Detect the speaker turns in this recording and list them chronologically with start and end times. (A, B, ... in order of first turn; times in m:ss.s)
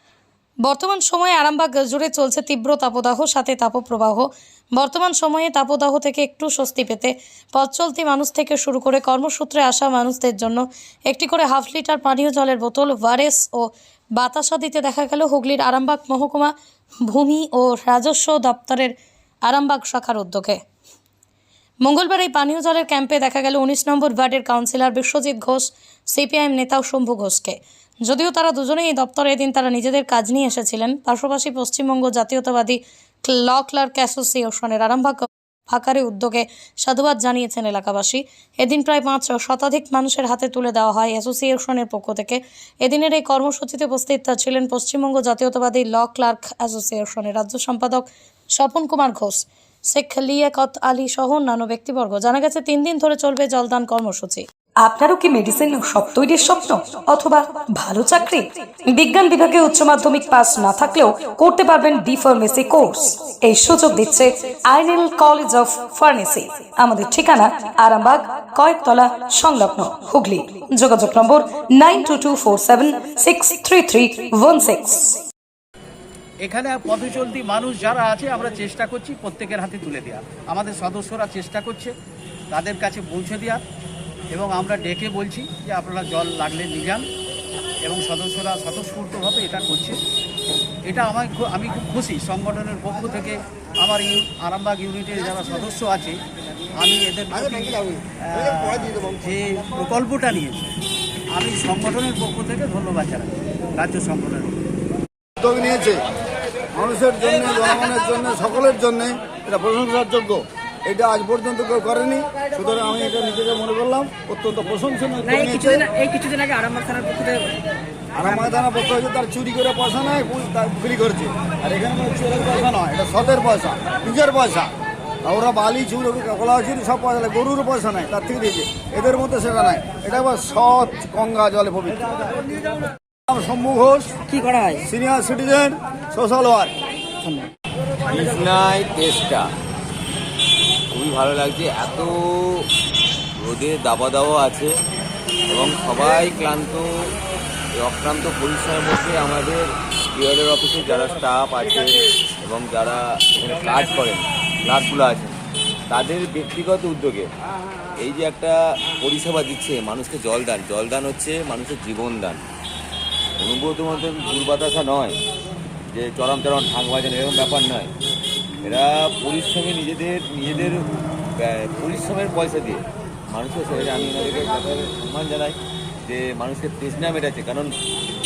0:00.6-0:16.5 A
0:17.0-0:20.6 A
0:21.8-0:54.4 A
0:54.8-0:58.4 B
0:55.1-0:55.6 A
0:58.9-1:15.0 B
1:13.2-1:13.8 A
1:16.4-1:21.9 C
1:22.5-1:23.6 C
1:24.3-1:27.0 C
1:27.8-1:30.0 C
1:30.9-1:36.2 C
1:36.8-1:40.7 C
1:37.4-1:37.8 D
1:38.6-1:39.0 D
1:41.3-1:44.6 C
1:45.4-1:46.0 D
1:46.7-1:55.8 D
1:55.2-1:57.5 E
1:58.2-2:04.7 D
1:58.2-1:58.6 E
2:05.2-2:12.3 D
2:13.3-2:14.2 D
2:14.3-2:14.8 E
2:14.8-2:16.7 D
2:17.2-2:17.5 E
2:18.1-2:19.5 F
2:20.9-2:22.7 F
2:23.4-2:24.7 F
2:25.5-2:27.1 F
2:27.8-2:35.4 F
2:35.9-2:37.3 F
2:38.0-2:42.4 F
2:43.4-2:45.2 F
2:45.9-2:47.9 F
2:48.6-2:50.8 F
2:51.4-2:57.7 F